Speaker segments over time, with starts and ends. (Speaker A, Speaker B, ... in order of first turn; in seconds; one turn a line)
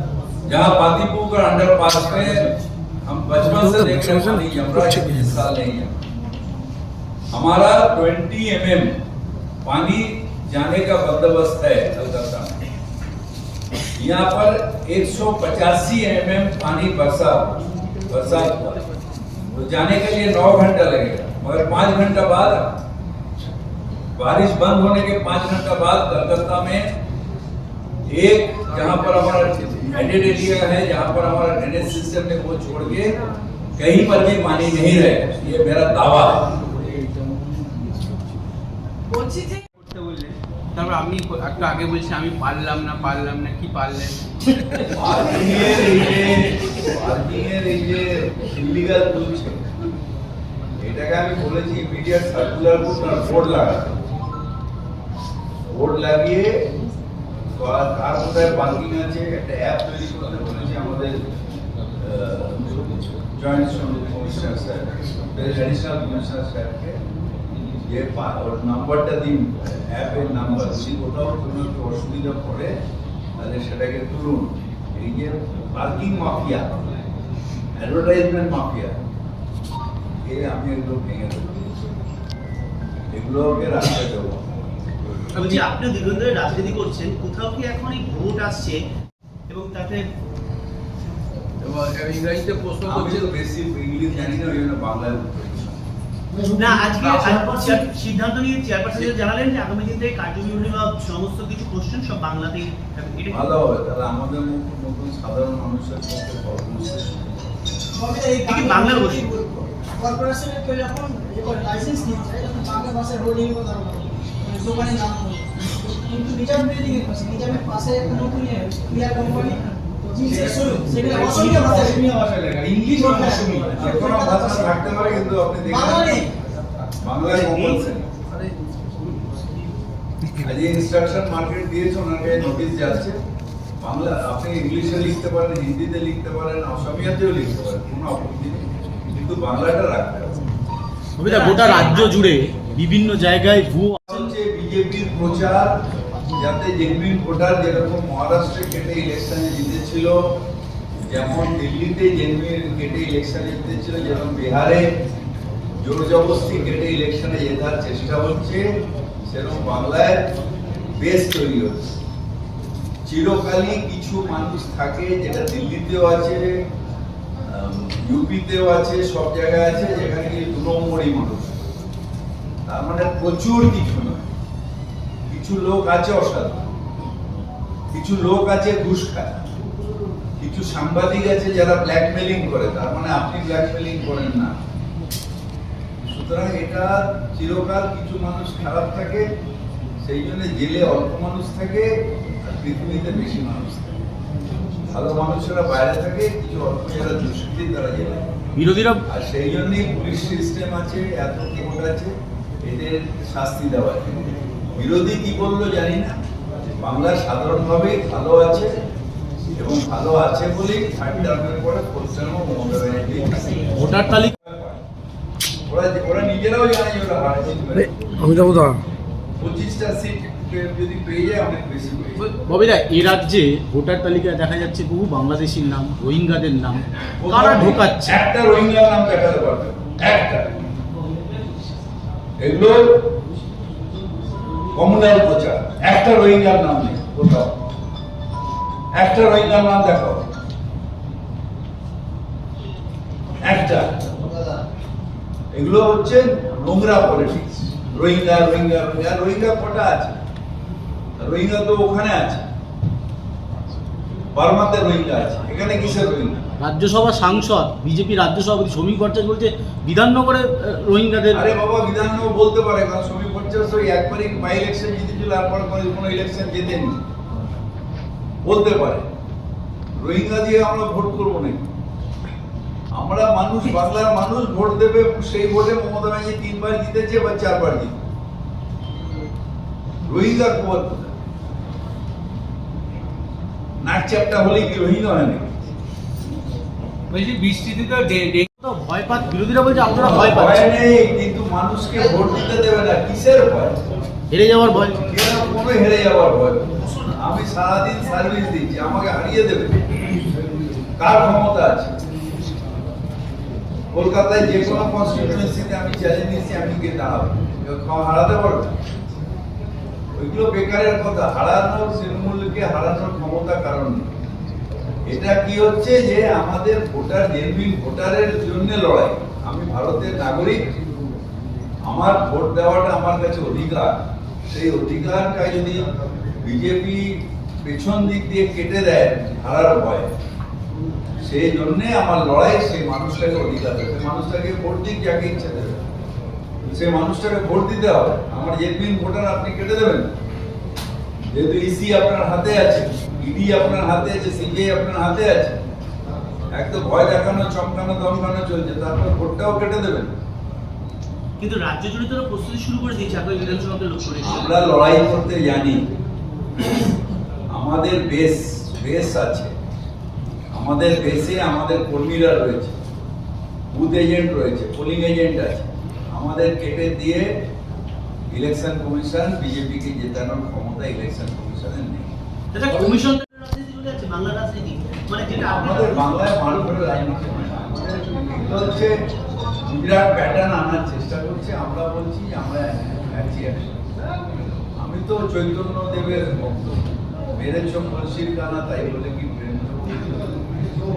Speaker A: 0.5-2.5
Speaker A: 3.0-6.0
Speaker B: 3.6-5.1
Speaker A: 7.3-8.9
Speaker A: 9.6-12.6
Speaker A: 13.9-18.8
Speaker A: 19.5-22.8
Speaker A: 24.1-26.9
Speaker A: 28.1-33.1
Speaker A: 33.8-36.5
Speaker C: 39.9-44.1
Speaker A: 44.9-49.6
Speaker A: 50.8-54.0
Speaker A: 55.7-56.5
Speaker A: 57.5-61.2
Speaker A: 62.0-67.0
Speaker A: 67.6-72.7
Speaker A: 73.4-76.8
Speaker A: 77.8-78.9
Speaker A: 80.2-81.6
Speaker A: 83.1-84.4
Speaker D: 85.3-88.8
Speaker D: 89.5-90.0
Speaker C: 91.6-93.2
Speaker A: 92.8-95.8
Speaker E: 96.3-97.7
Speaker D: 96.5-103.5
Speaker A: 103.3-107.5
Speaker E: 107.9-122.0
Speaker D: 108.5-109.3
Speaker C: 120.6-123.8
Speaker F: 122.4-122.8
Speaker E: 122.9-124.6
Speaker A: 122.9-126.2
Speaker E: 125.7-126.3
Speaker A: 127.0-128.1
Speaker D: 127.5-127.8
Speaker A: 130.4-133.2
Speaker A: 133.8-140.3
Speaker F: 141.2-144.2
Speaker D: 141.2-142.2
Speaker A: 144.1-145.7
Speaker A: 146.3-150.2
Speaker A: 151.1-154.9
Speaker A: 155.8-158.7
Speaker A: 159.2-160.2
Speaker A: 161.0-161.9
Speaker A: 163.1-166.5
Speaker A: 167.5-171.7
Speaker A: 172.7-174.2
Speaker A: 175.3-176.7
Speaker A: 177.9-179.4
Speaker A: 180.4-184.5
Speaker A: 186.0-189.3
Speaker A: 190.0-194.0
Speaker A: 194.9-198.2
Speaker F: 198.6-199.0
Speaker A: 199.1-202.1
Speaker A: 202.6-206.1
Speaker A: 206.8-208.7
Speaker A: 209.6-214.8
Speaker F: 213.8-214.3
Speaker A: 215.7-218.4
Speaker B: 218.2-218.8
Speaker A: 219.4-222.2
Speaker F: 222.2-228.2
Speaker A: 227.2-230.5
Speaker A: 232.4-233.1
Speaker A: 234.7-237.6
Speaker A: 238.9-240.2
Speaker A: 243.4-244.2
Speaker A: 245.5-250.2
Speaker A: 251.2-252.4
Speaker A: 254.3-256.4
Speaker F: 256.6-261.4
Speaker A: 261.3-267.0
Speaker A: 268.4-269.1
Speaker A: 270.0-271.7
Speaker A: 272.9-278.0
Speaker A: 280.1-281.1
Speaker A: 283.8-285.4
Speaker C: 287.1-288.4
Speaker F: 288.6-290.6
Speaker A: 289.9-293.8
Speaker F: 294.3-295.0
Speaker A: 294.8-300.0
Speaker A: 301.0-301.9
Speaker A: 303.9-308.7
Speaker A: 310.1-314.1
Speaker A: 315.1-320.6
Speaker A: 321.9-325.9
Speaker A: 326.4-330.1
Speaker A: 331.2-335.9
Speaker A: 336.7-340.1
Speaker A: 341.3-345.6
Speaker A: 346.5-350.1
Speaker D: 351.4-354.7
Speaker A: 354.2-355.9
Speaker A: 357.5-359.5
Speaker A: 360.5-362.8
Speaker A: 363.7-367.3
Speaker A: 368.3-372.1
Speaker D: 372.5-376.4
Speaker A: 375.4-379.0
Speaker A: 379.6-383.8
Speaker A: 384.8-390.5